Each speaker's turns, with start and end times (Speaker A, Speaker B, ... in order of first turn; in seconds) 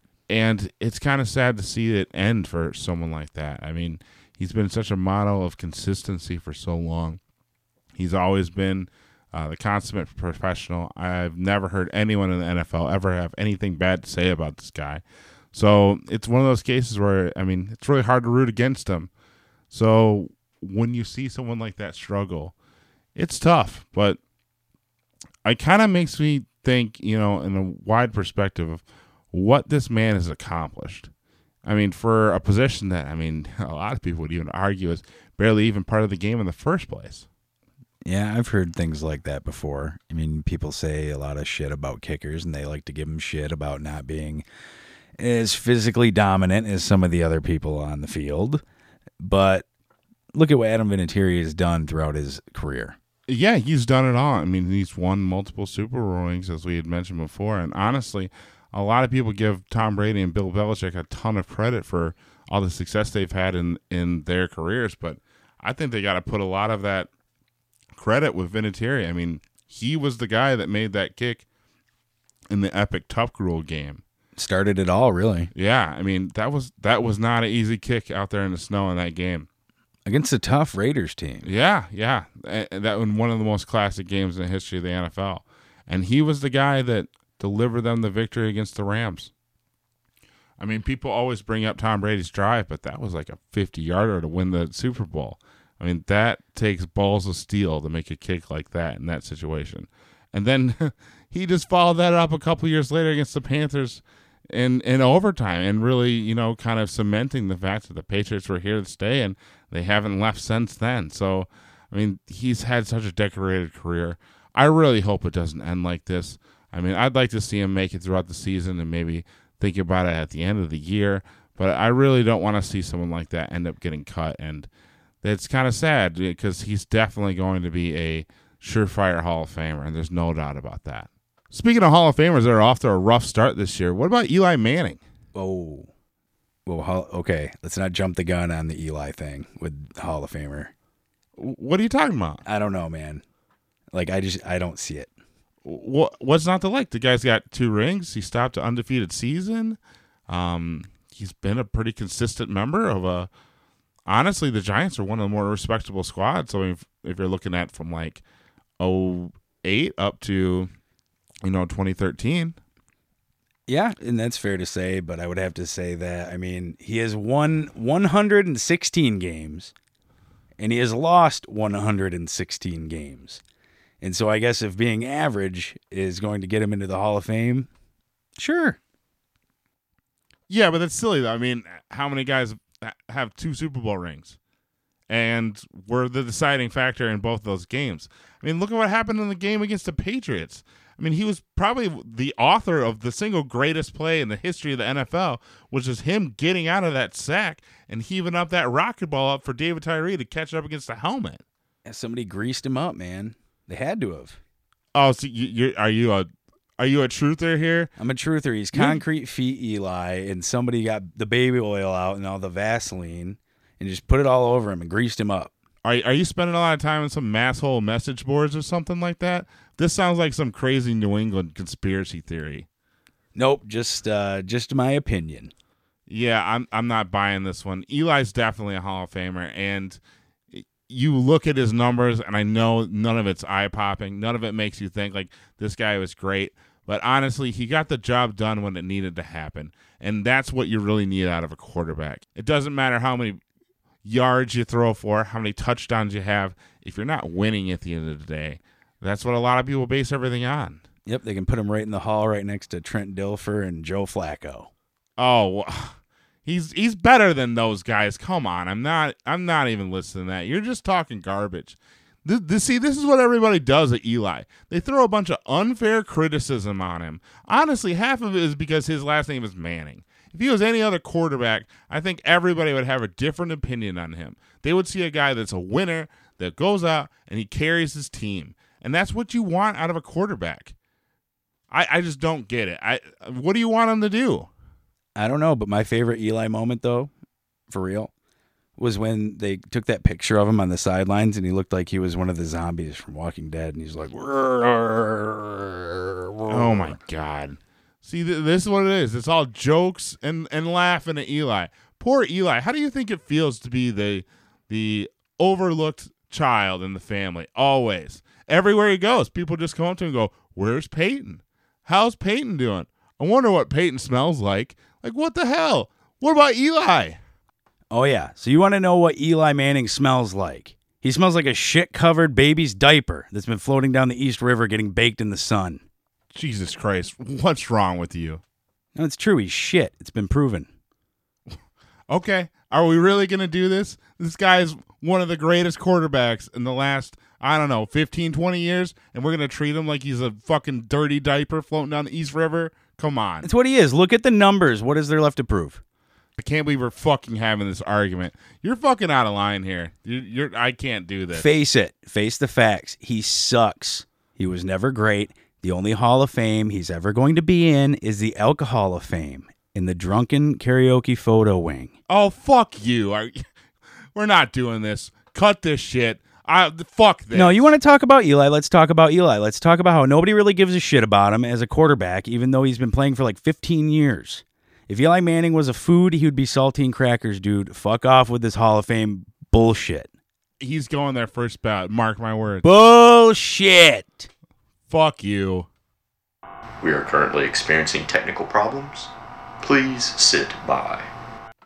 Speaker A: 0.3-7.2, 7.9-19.1, 19.7-22.5, 23.1-24.2, 25.4-31.1, 31.6-37.3, 53.3-67.1, 67.9-71.5, 72.5-74.0, 75.5-79.5, 81.4-89.3, 90.6-124.7, 125.2-135.0, 141.4-142.4, 145.6-153.3, 154.1-158.2, 158.8-160.7, 161.4-162.6, 180.5-184.4, 185.1-201.4, 204.9-207.9, 208.7-209.0, 215.8-222.7, 226.1-230.0, 230.5-243.4, 244.0-250.8, 255.2-280.7, 281.7-284.5, 296.5-317.2, 326.3-328.4, 332.1-343.5, 346.4-351.5, 362.1-363.4, 364.1-367.7, 380.6-382.6, 384.9-385.7
Speaker B: 38.0-44.4, 45.2-48.6, 49.2-49.6, 50.3-53.0, 74.3-75.5, 80.0-81.5, 135.3-135.9, 136.7-140.7, 142.4-143.2, 143.9-145.1, 163.7-169.7, 170.6-173.4, 174.0-177.7, 178.4-178.8, 201.8-204.4, 208.0-215.5, 223.3-225.5, 251.1-254.7, 285.1-287.1, 287.7-288.1, 288.8-296.9, 317.9-325.8, 328.9-330.7, 343.4-345.8, 351.3-361.9, 367.3-380.1, 382.6-384.3
Speaker C: 386.8-389.1, 389.6-391.1